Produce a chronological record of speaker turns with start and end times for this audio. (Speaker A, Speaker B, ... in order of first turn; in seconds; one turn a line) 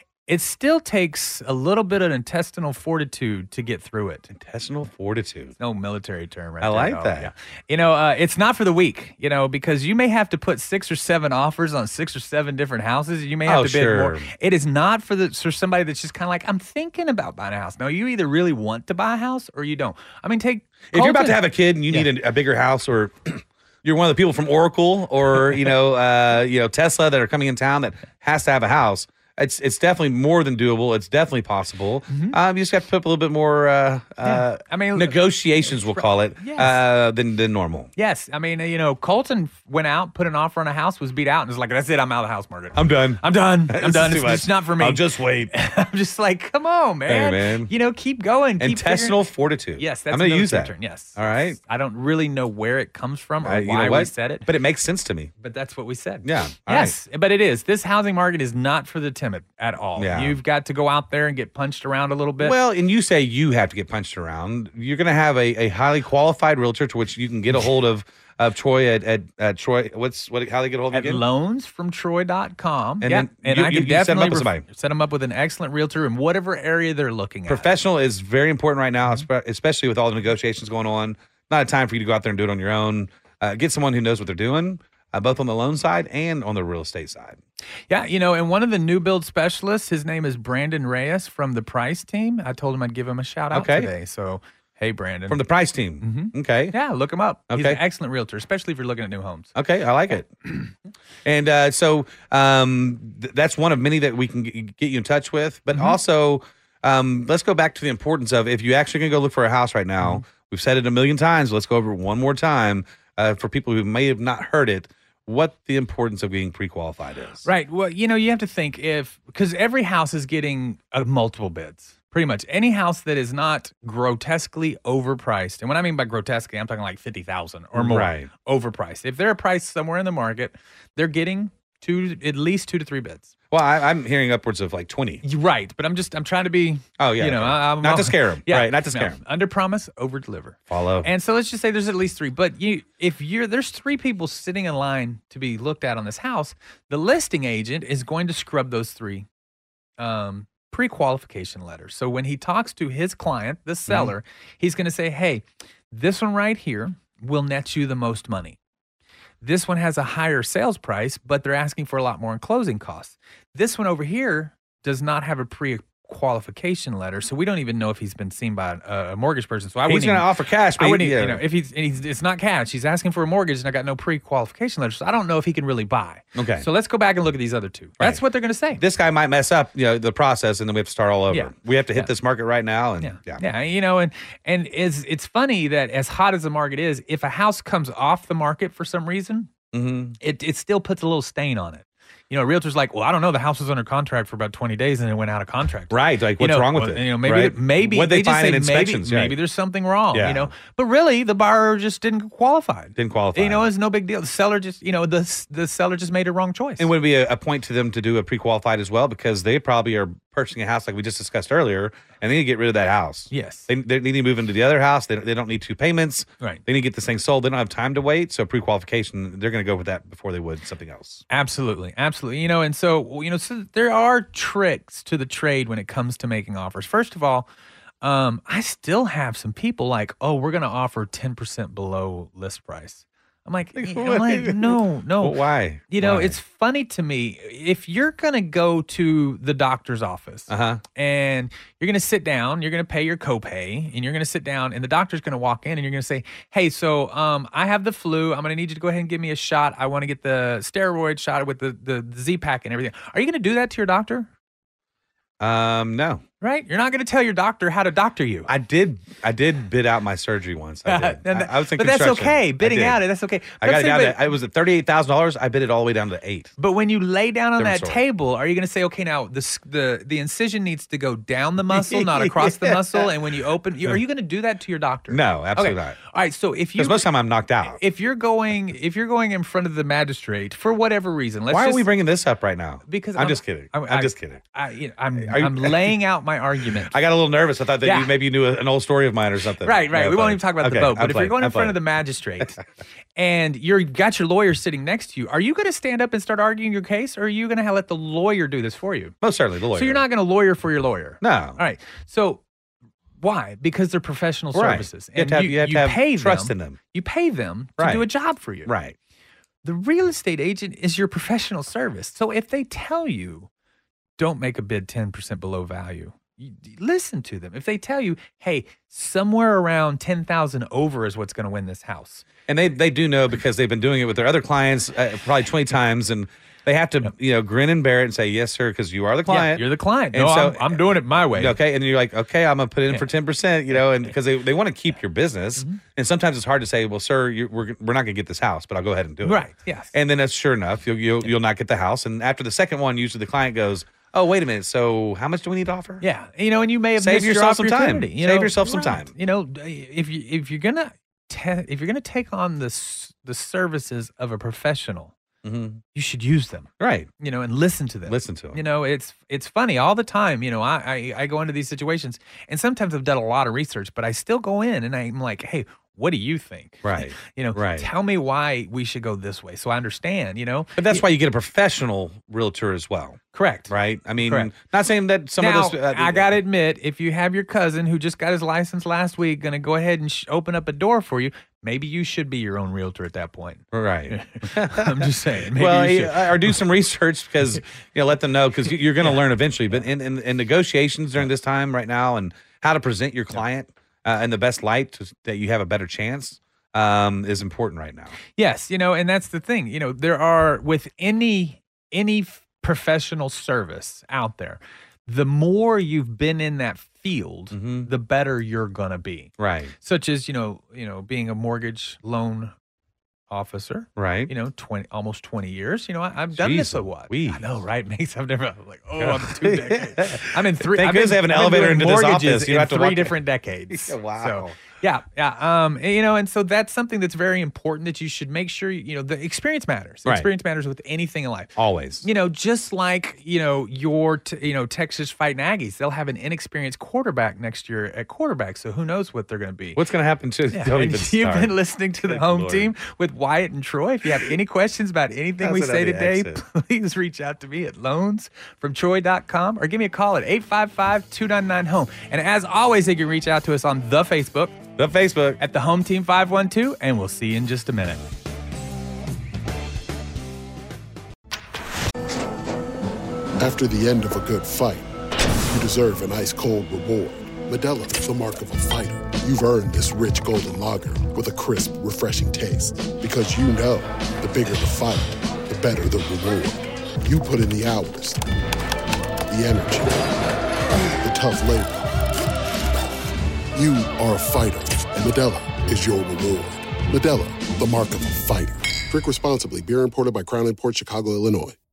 Speaker A: 0.3-4.3
Speaker B: 4.3-5.5
Speaker A: 5.6-22.1
Speaker B: 6.6-7.3
Speaker B: 13.4-14.3
Speaker B: 20.9-37.9
Speaker A: 32.1-32.4
Speaker A: 34.2-36.8
Speaker A: 38.0-49.2
Speaker B: 42.7-45.5
Speaker B: 47.1-47.7
Speaker B: 48.6-51.6
Speaker A: 49.8-54.5
Speaker B: 53.4-55.3
Speaker A: 55.4-62.5
Speaker B: 56.2-57.0
Speaker B: 60.0-60.4
Speaker B: 62.4-71.2
Speaker A: 70.9-77.7
Speaker B: 73.0-74.6
Speaker B: 77.5-87.4
Speaker A: 87.9-95.4
Speaker B: 93.5-93.9
Speaker B: 95.3-96.8
Speaker A: 96.0-99.5
Speaker B: 97.5-97.8
Speaker B: 99.5-100.3
Speaker B: 101.2-117.5
Speaker A: 105.7-106.0
Speaker A: 117.4-133.3
Speaker B: 127.7-128.3
Speaker B: 133.5-135.2
Speaker A: 135.2-149.3
Speaker B: 137.0-139.2
Speaker B: 140.7-141.1
Speaker A: 150.0-158.6
Speaker B: 153.9-154.1
Speaker A: 159.4-178.8
Speaker B: 169.8-171.4
Speaker B: 176.3-176.7
Speaker B: 178.8-183.4
Speaker A: 181.3-182.1
Speaker A: 183.0-189.5
Speaker B: 189.7-190.2
Speaker A: 190.2-206.9
Speaker B: 195.9-199.4
Speaker B: 200.1-200.5
Speaker B: 202.9-203.7
Speaker B: 206.8-221.2
Speaker A: 213.3-213.7
Speaker A: 221.3-227.5
Speaker A: 228.0-254.3
Speaker B: 233.8-236.4
Speaker B: 240.5-240.8
Speaker B: 255.4-256.2
Speaker A: 256.4-258.5
Speaker B: 258.5-263.0
Speaker A: 260.9-264.2
Speaker B: 263.6-266.5
Speaker A: 266.6-277.1
Speaker B: 267.6-268.0
Speaker B: 271.7-273.1
Speaker B: 275.1-276.0
Speaker B: 276.8-277.8
Speaker A: 277.6-281.9
Speaker B: 281.5-284.4
Speaker A: 282.9-286.9
Speaker B: 285.1-285.9
Speaker B: 286.9-291.8
Speaker A: 287.8-288.1
Speaker A: 289.6-292.6
Speaker A: 293.1-299.1
Speaker B: 299.2-300.0
Speaker A: 299.7-302.4
Speaker B: 301.2-301.6
Speaker A: 303.2-308.7
Speaker B: 304.5-306.8
Speaker B: 307.8-308.1
Speaker B: 308.6-308.9
Speaker A: 309.6-313.5
Speaker A: 314.2-322.2
Speaker B: 322.5-346.0
Speaker A: 329.2-331.6
Speaker A: 333.7-334.0
Speaker A: 339.2-339.9
Speaker A: 346.0-355.1
Speaker B: 347.0-349.1
Speaker B: 355.4-355.8
Speaker A: 355.9-371.0
Speaker B: 356.8-357.1
Speaker B: 358.1-358.6
Speaker B: 366.8-367.9
Speaker B: 370.8-376.3
Speaker A: 373.3-373.7
Speaker A: 374.2-374.5
Speaker A: 375.4-386.6
Speaker B: 383.7-398.1
Speaker A: 398.4-412.5
Speaker B: 407.5-407.9
Speaker B: 409.4-409.7
Speaker A: 413.3-439.8
Speaker B: 413.9-414.3
Speaker B: 416.3-417.4
Speaker B: 419.0-423.2
Speaker B: 423.7-424.6
Speaker B: 430.0-430.3
Speaker B: 431.6-432.1
Speaker B: 439.7-442.7
Speaker A: 440.5-454.6
Speaker B: 445.4-446.4
Speaker B: 454.8-455.4
Speaker A: 455.4-458.0
Speaker C: 463.4-464.9
Speaker C: 465.5-478.2
Speaker C: 479.3-480.1
Speaker C: 481.0-481.9
Speaker C: 483.5-491.6